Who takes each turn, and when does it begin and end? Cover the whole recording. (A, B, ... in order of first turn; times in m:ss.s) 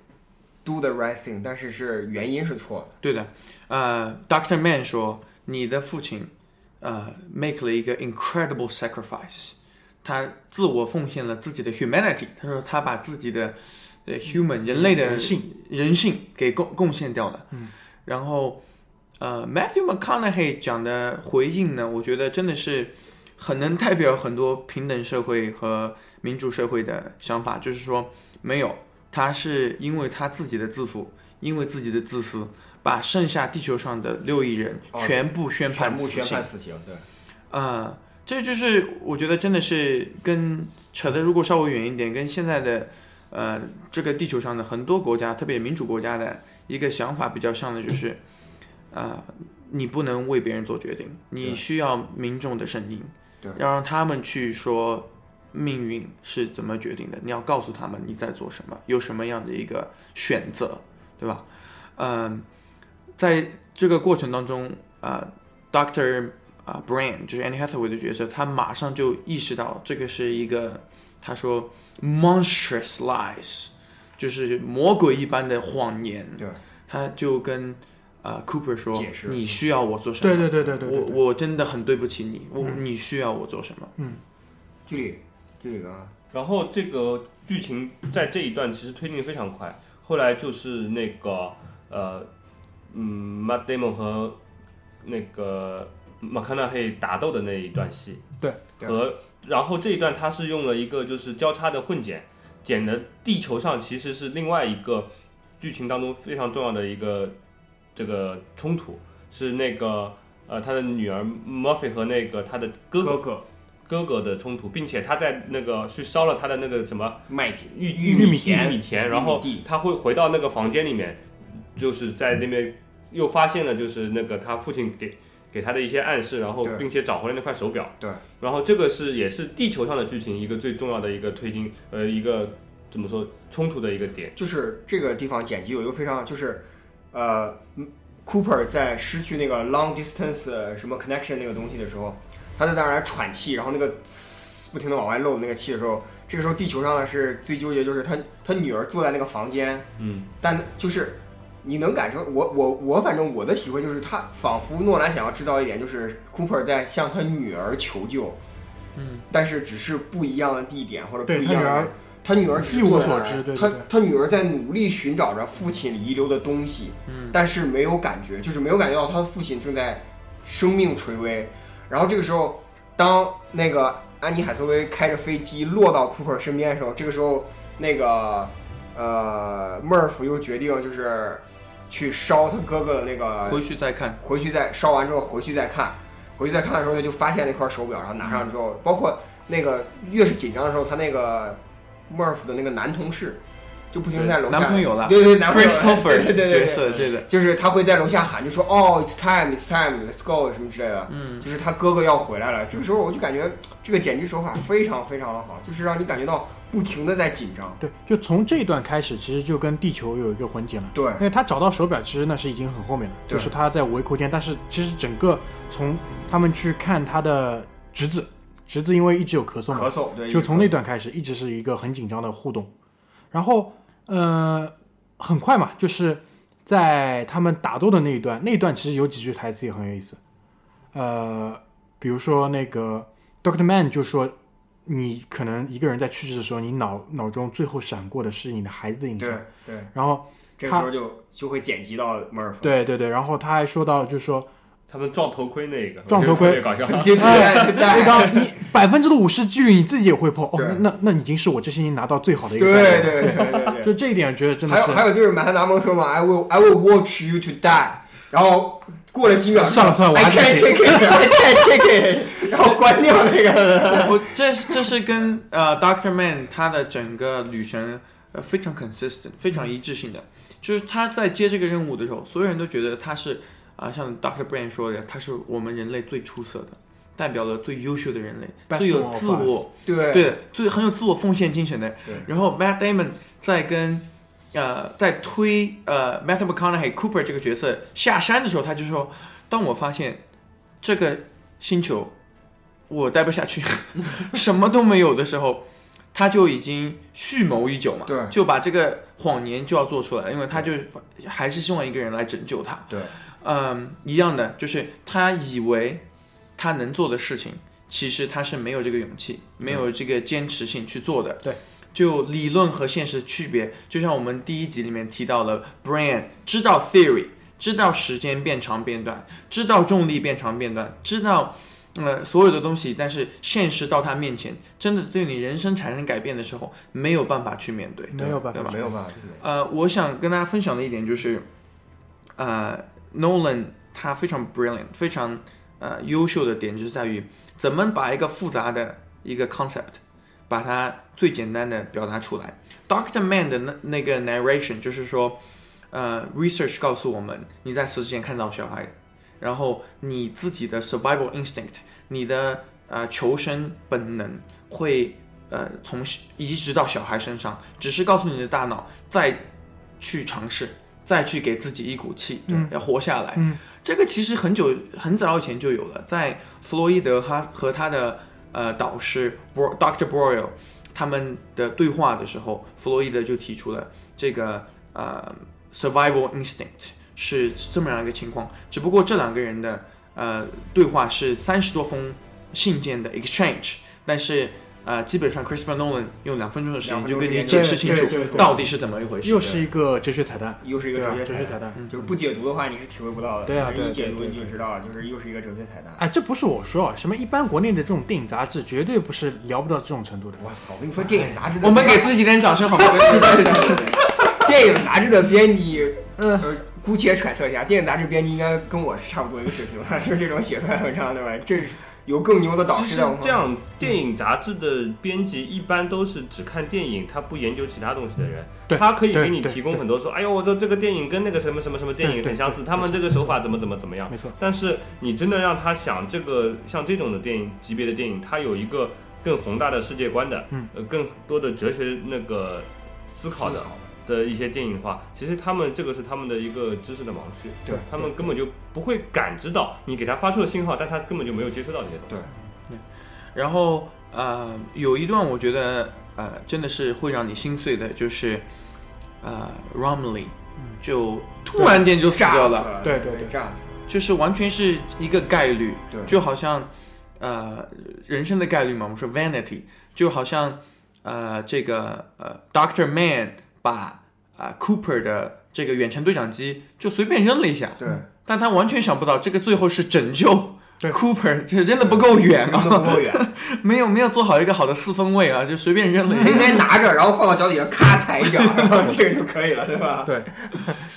0:00.6-0:02.9 A
0:03.0-0:17.5 B
0:14.7-0:15.5 C
0:18.0-0:18.6 B
0:19.2-0:36.5 B
0:34.9-0:37.1 A
0:37.5-0:48.2 B
0:48.9-1:02.5 B
1:03.2-1:23.9 B
1:18.9-1:19.6 A
1:20.2-1:21.2 C
1:24.9-1:26.1 A
1:26.3-1:32.3 D
1:32.9-1:34.4 D
1:35.0-1:38.2 D
1:38.8-1:47.4 D
1:48.0-1:53.2 D
1:53.0-1:53.4 A
1:53.9-2:01.2 D
1:57.3-1:59.6 A
1:58.1-1:58.7 C
2:01.8-2:14.4 D
2:14.4-2:29.9 A
2:30.0-2:30.3 D
2:30.4-2:38.4 A
2:39.0-2:39.3 B
2:39.3-3:03.6 A
2:41.3-2:41.9 C
2:42.7-2:43.9 C
2:47.1-2:47.4 B
3:03.4-3:04.2 B
3:04.2-3:13.4 A
3:13.9-3:27.8 A
3:14.2-3:17.3 B
3:21.1-3:21.5 B
3:27.8-3:42.7 C
3:30.9-3:31.2 A
3:39.7-3:40.7 A
3:43.3-3:50.2 C
3:50.9-3:54.4 C
3:54.9-4:00.9 C
3:59.2-3:59.9 A
4:00.6-4:02.8 A
4:02.6-4:04.5 C
4:04.9-4:08.3 D
4:06.1-4:15.1 C
4:06.2-4:08.4 A
4:10.5-4:10.8 A
4:12.6-4:14.0 A
4:14.7-4:24.3 A
4:19.6-4:21.4 C
4:23.8-4:50.2 B
4:38.7-4:39.7 C
4:39.9-4:40.3 A
4:50.8-4:52.1 B
4:52.9-5:06.0 B
4:58.1-4:58.3 A
5:02.9-5:03.2 A
5:06.6-5:28.8 B
5:28.1-5:29.0 C
5:28.2-5:29.4 A
5:29.4-5:31.5 B
5:32.4-5:45.4 B
5:45.9-5:59.4 B
6:00.0-6:29.6 B
6:02.5-6:02.8 C
6:03.4-6:03.6 C
6:26.8-6:28.6 A
6:27.5-6:28.6 C
6:29.2-6:31.8 C
6:30.6-6:36.0 A
6:33.5-6:34.6 C
6:36.0-6:40.4 C
6:40.4-6:42.2 A
6:41.0-6:41.4 C
6:41.6-6:44.5 B
6:42.7-6:53.5 A
6:46.2-6:46.5 C
6:52.7-7:22.2 D
6:58.7-6:59.8 C
7:02.0-7:03.3 C
7:04.1-7:04.4 C
7:13.3-7:13.8 A
7:22.7-7:28.5 B
7:29.2-7:32.7 B
7:32.1-7:33.8 A
7:32.8-7:33.3 C
7:33.9-7:56.6 B
7:35.9-7:36.2 A
7:47.8-7:48.1 A
7:51.8-7:53.2 A
7:56.2-8:00.7 A
7:58.4-7:58.7 B